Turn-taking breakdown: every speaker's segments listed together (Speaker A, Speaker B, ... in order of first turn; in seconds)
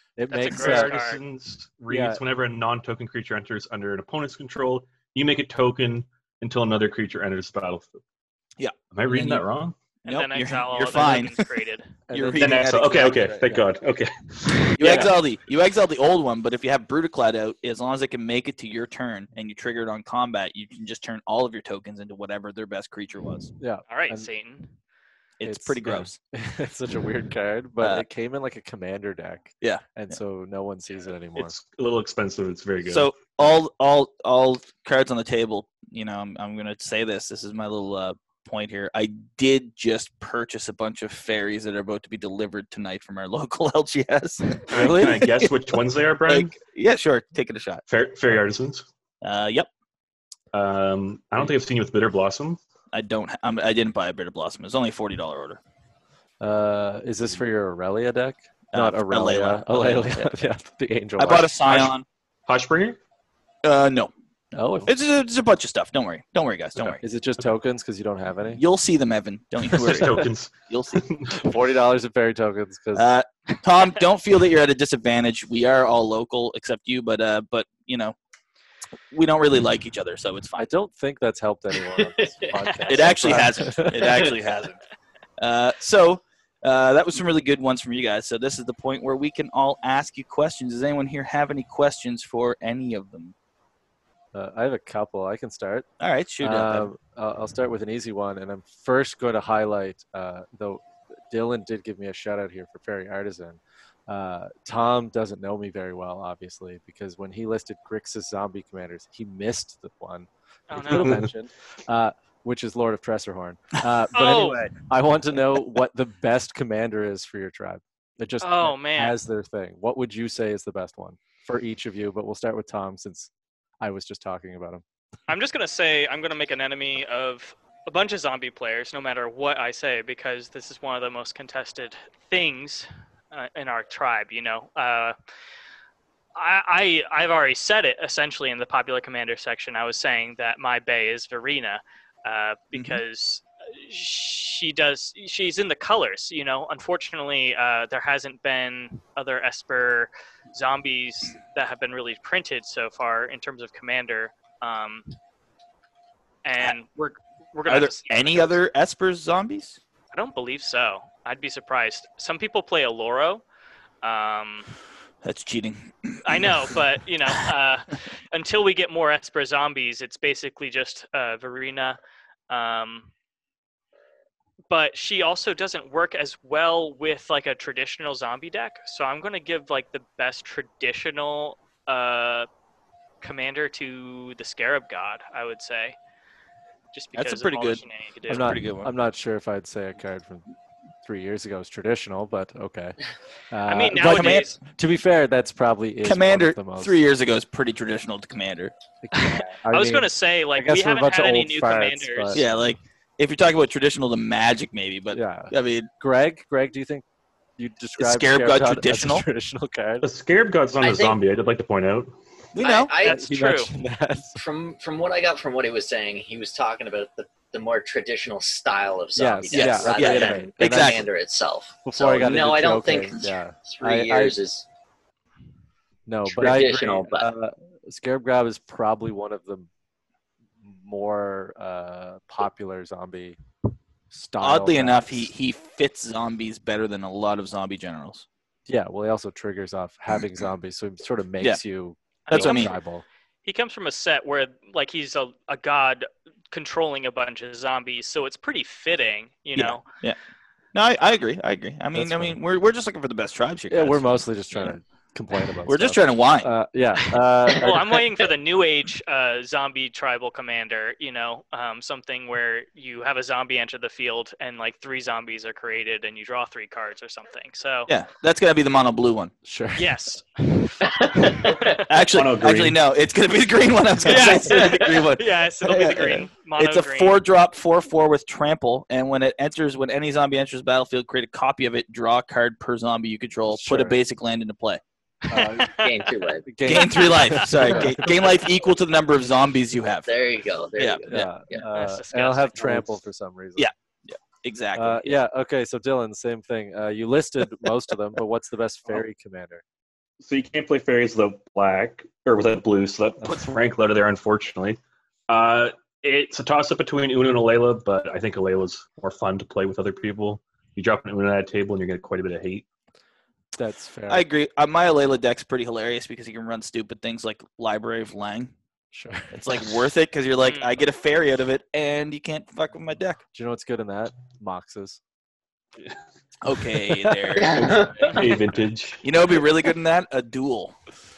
Speaker A: 0.2-0.9, 1.9-2.2, 12.1-13.6, 23.6-24.3, 25.4-31.5, 44.8-45.2, 56.4-61.5, 64.5-64.9, 67.0-68.6, 70.0-70.2, 71.4-73.1, 80.6-84.3, 94.3-95.8, 96.4-123.3, 123.8-124.8, 188.3-190.5, 191.0-193.0, 193.5-196.9, 199.0-202.4, 205.1-207.0, 207.6-210.0, 213.0-214.4, 219.1-221.1, 221.8-224.4, 226.1-229.7, 230.6-233.4, 234.1-235.3, 238.7-243.0, 251.9-252.4, 253.7-258.0, 269.4-269.9, 283.5-284.0, 285.3-285.8, 286.4-288.3, 291.1-293.7, 294.7-299.6, 313.5-314.2, 318.9-319.8, 323.3-325.0, 326.8-327.4
Speaker B: 0.3-1.2, 10.1-11.9, 23.9-24.7, 110.7-111.2, 114.1-114.7, 118.4-119.2, 125.3-135.1, 136.3-155.2, 156.4-158.6, 160.1-163.4, 164.0-164.7, 166.2-172.0, 172.5-173.1, 174.7-182.5, 183.2-186.0, 186.9-188.6, 193.7-194.6, 199.1-202.4, 213.0-213.7, 242.3-242.8, 243.4-249.8, 257.5-267.9, 269.8-271.8, 274.0-277.2, 285.3-286.1, 286.7-287.9, 291.7-292.8, 320.4-320.7
Speaker C: 0.5-8.0, 8.9-9.7, 12.3-15.1, 31.4-33.2, 44.7-46.5, 47.9-48.9, 50.5-52.6, 61.6-61.9, 62.5-63.0, 69.7-71.5, 111.0-111.3, 210.0-212.2, 272.1-272.8, 300.2-312.6, 327.5-329.0
Speaker D: 8.6-9.4, 10.1-11.4, 12.1-13.3, 14.8-23.5, 25.4-26.2, 29.6-30.2, 32.8-45.5, 46.2-47.8, 49.2-49.7, 52.9-55.6, 58.7-60.3, 61.2-62.0, 63.6-64.1, 64.8-67.0, 68.5-71.0, 72.9-78.2, 79.1-80.7, 82.9-84.8, 85.4-93.3, 96.0-96.9, 142.7-143.0, 157.7-159.8, 165.2-166.8, 187.1-188.9, 193.9-194.5, 196.0-198.7, 202.3-205.9, 208.0-209.2, 212.5-212.9, 219.5-221.0, 234.4-238.2, 242.3-242.7, 249.5-250.2, 250.7-254.2, 255.7-256.5, 267.9-269.3, 271.9-284.8, 286.6-290.1, 290.8-291.3, 293.6-295.2, 314.1-318.5, 319.3-323.2, 326.4-327.9, 329.0-330.7
Speaker E: 82.4-83.4, 210.8-211.2, 212.6-213.2, 214.4-224.7, 226.2-227.3, 270.8-271.8, 285.8-286.5, 290.1-291.6, 327.4-328.2